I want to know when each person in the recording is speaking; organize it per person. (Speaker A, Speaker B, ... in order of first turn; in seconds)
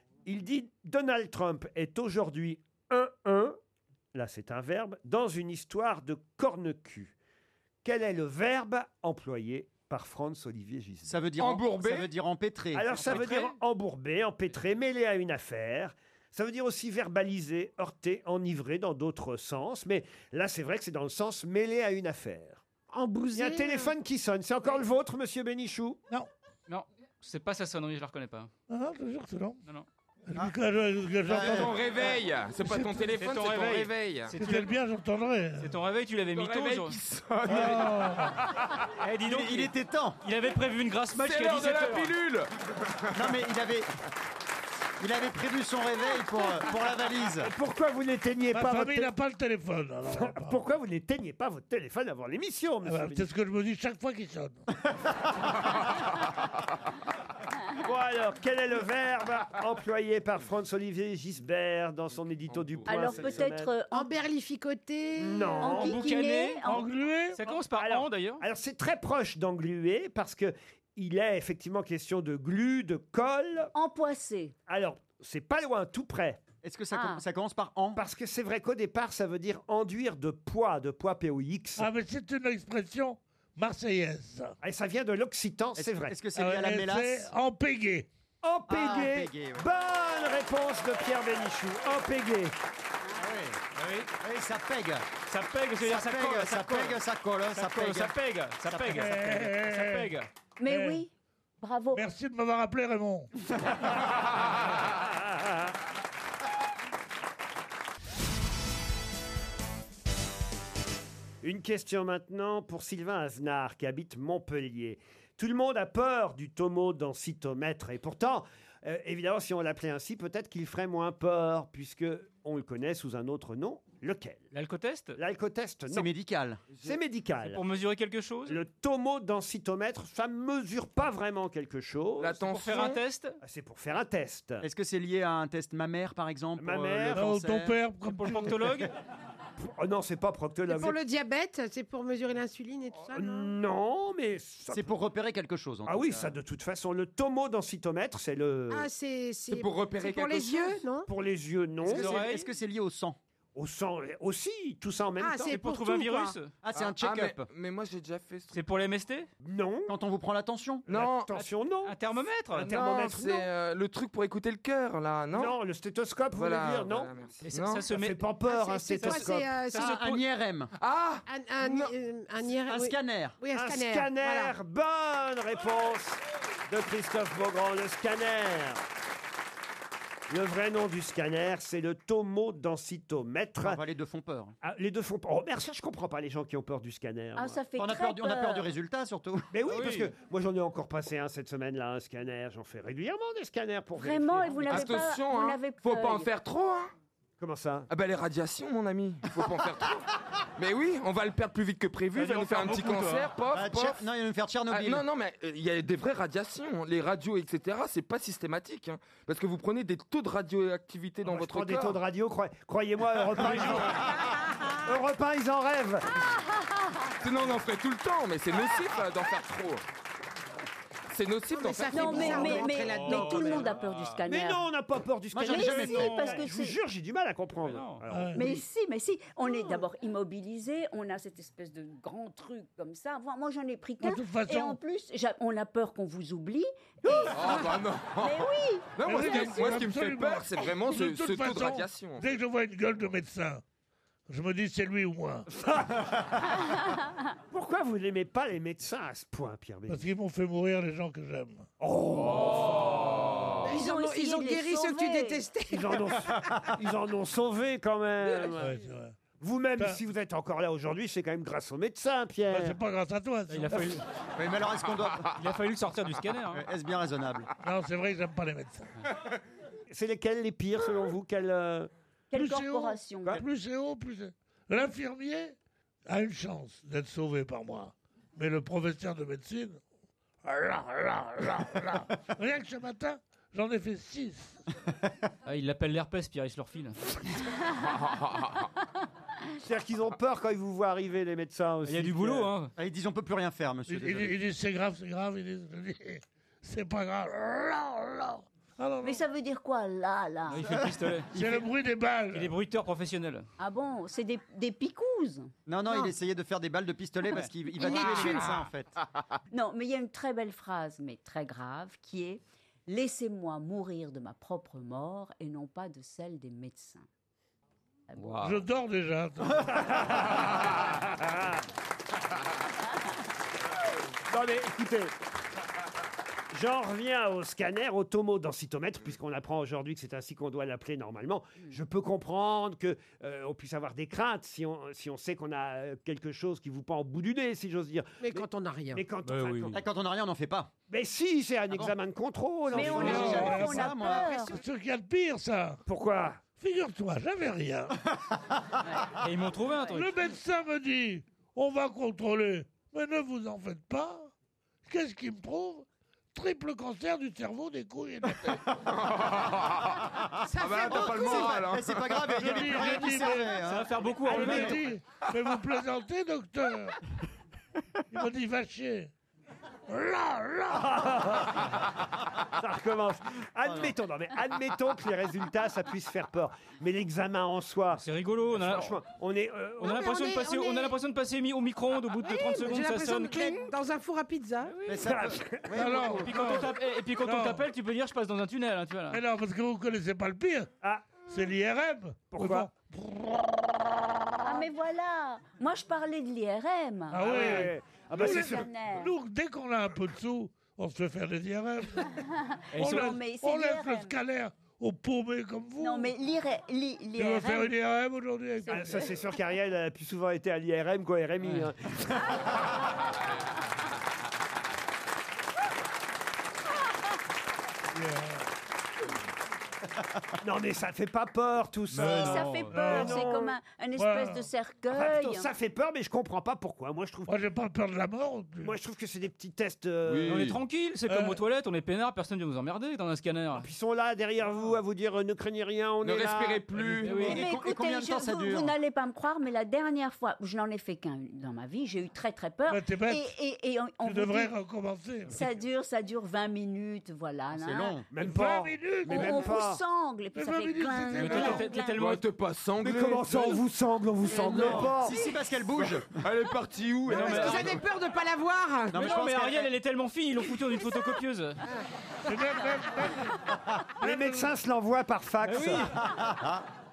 Speaker A: 0.2-3.6, 4.1-7.2, 7.8-11.2, 12.7-22.6, 23.3-26.0, 47.4-49.1, 50.1-53.3, 57.8-63.7, 65.2-66.0, 67.6-73.7, 74.7-76.4, 78.0-81.9, 84.6-86.2, 88.4-92.5, 105.0-105.5, 111.4-124.5, 125.2-126.1, 126.8-127.6, 128.5-132.4, 133.4-134.7, 136.6-137.3, 139.6-141.0, 143.1-145.0, 145.9-148.9, 151.1-152.2, 153.6-155.6, 159.4-159.9, 160.9-162.0, 162.5-163.5, 165.3-167.1, 167.9-169.6, 173.5-178.8, 180.3-183.8, 184.6-187.6, 189.5-195.0, 197.4-197.9, 211.2-214.1, 214.8-216.2, 224.2-228.6, 245.5-246.1, 247.5-250.1, 251.8-253.0, 255.7-258.8, 259.4-262.8, 269.9-271.9, 289.6-292.5, 319.8-321.6, 324.3-325.1, 326.5-339.8, 340.9-343.5, 345.9-346.4, 364.4-364.8, 370.7-371.9, 372.6-380.0, 385.1-385.8, 390.8-391.2, 392.3-392.7, 397.2-398.7, 408.7-411.9, 420.4-423.6, 424.9-427.4, 428.6-430.4, 433.6-437.0, 448.1-449.8, 452.8-455.2, 464.0-465.9
Speaker B: 11.1-13.1, 31.3-31.7, 39.2-40.2, 43.1-43.9, 45.0-47.5, 76.6-78.0, 85.8-87.3, 88.7-89.7, 93.2-93.6, 94.2-95.1, 95.8-98.2, 98.7-99.0, 125.9-126.6, 134.6-137.8, 144.7-146.3, 151.8-153.2, 156.6-157.5, 159.9-160.8, 169.7-170.7, 172.7-173.4, 183.6-184.6, 187.8-189.5, 203.5-205.0, 225.3-226.3, 264.4-265.3, 266.5-267.5, 292.8-294.4, 305.7-308.9, 339.7-340.7, 342.7-344.4, 360.7-364.7, 384.9-386.4, 437.1-438.8, 447.5-448.1, 454.4-456.2, 458.9-459.7, 466.0-466.6
Speaker C: 11.4-12.1, 31.4-34.4, 36.3-38.7, 41.1-43.4, 62.5-63.3, 132.2-133.0, 149.5-150.8, 156.7-158.6, 160.9-161.3, 162.6-165.6, 166.3-167.9, 170.8-171.9, 194.7-196.9, 197.9-200.1, 200.6-204.0, 204.7-212.0, 213.6-214.0, 217.2-219.8, 221.1-222.8, 237.3-242.3, 358.9-362.9, 430.1-430.6, 436.0-437.3, 452.0-453.6, 455.8-457.8
Speaker D: 12.9-13.6, 26.7-28.5, 33.2-34.6, 35.6-37.0, 39.0-42.1, 65.7-68.4, 93.8-94.1, 95.3-100.3, 124.5-125.2, 127.4-128.6, 132.4-133.4, 138.0-138.9, 151.9-152.5, 155.4-156.6, 158.5-159.3, 161.8-162.7, 167.4-168.2, 168.9-170.2, 189.7-190.1, 202.1-203.3, 213.4-213.8, 222.8-224.2, 227.7-228.0, 263.5-264.0, 265.3-266.7, 285.4-287.1, 291.9-292.7, 300.5-301.3, 302.3-303.5, 307.3-308.6, 339.2-339.8, 343.1-343.4, 349.2-350.1, 363.6-364.8, 377.9-379.0, 379.8-383.7, 384.6-385.1, 386.1-389.2, 402.8-403.1, 421.9-422.8, 430.3-433.7, 437.0-437.4, 451.2-452.2, 457.1-457.8, 458.9-461.6, 465.4-465.9
Speaker E: 22.9-23.9, 63.9-65.8, 140.7-143.5, 148.7-151.1, 155.2-156.4, 168.5-169.9, 171.3-174.5, 221.5-223.7, 253.6-256.5, 305.9-306.1, 338.2-339.1, 360.4-361.6, 379.9-380.9, 382.2-384.8, 457.1-459.0
Speaker F: 28.7-29.6, 30.3-32.1, 32.6-33.1, 34.3-35.8, 37.5-38.4, 48.5-50.6, 52.9-54.6, 66.6-67.5, 81.8-84.5, 86.3-88.1, 98.9-101.0, 101.9-103.3, 137.1-138.8, 228.1-228.4, 234.0-234.8, 239.0-243.6, 244.3-245.5, 249.9-251.7, 258.6-259.2, 262.5-264.0, 267.6-268.9, 272.3-275.6, 276.1-279.8, 280.4-284.6, 293.9-299.2, 301.3-302.5, 318.4-320.4, 343.0-345.8, 346.5-348.0, 349.9-354.3, 354.9-358.7, 362.3-363.6, 364.2-367.0, 368.1-369.1, 369.9-371.3, 385.7-387.7, 389.1-390.7, 391.3-393.6, 397.1-402.1, 402.8-406.1, 407.2-409.1, 417.9-418.5, 422.1-423.3, 424.0-424.5, 427.3-428.8, 431.1-431.4, 442.7-443.3, 444.0-445.4, 448.2-449.6, 450.3-451.7, 462.3-464.6
Speaker G: 62.9-64.1, 65.6-66.9, 73.8-74.5, 76.9-77.2, 100.6-102.0, 187.4-188.7, 194.0-196.3, 221.9-224.6, 225.4-226.8, 228.3-239.7, 253.7-255.4, 272.3-273.4, 299.0-300.7, 303.6-305.5, 307.8-308.4, 309.5-317.1, 342.7-344.6, 394.4-399.1, 402.1-404.2, 405.8-407.7, 408.6-409.1, 422.2-425.5, 437.2-444.5, 445.3-448.0, 449.0-452.0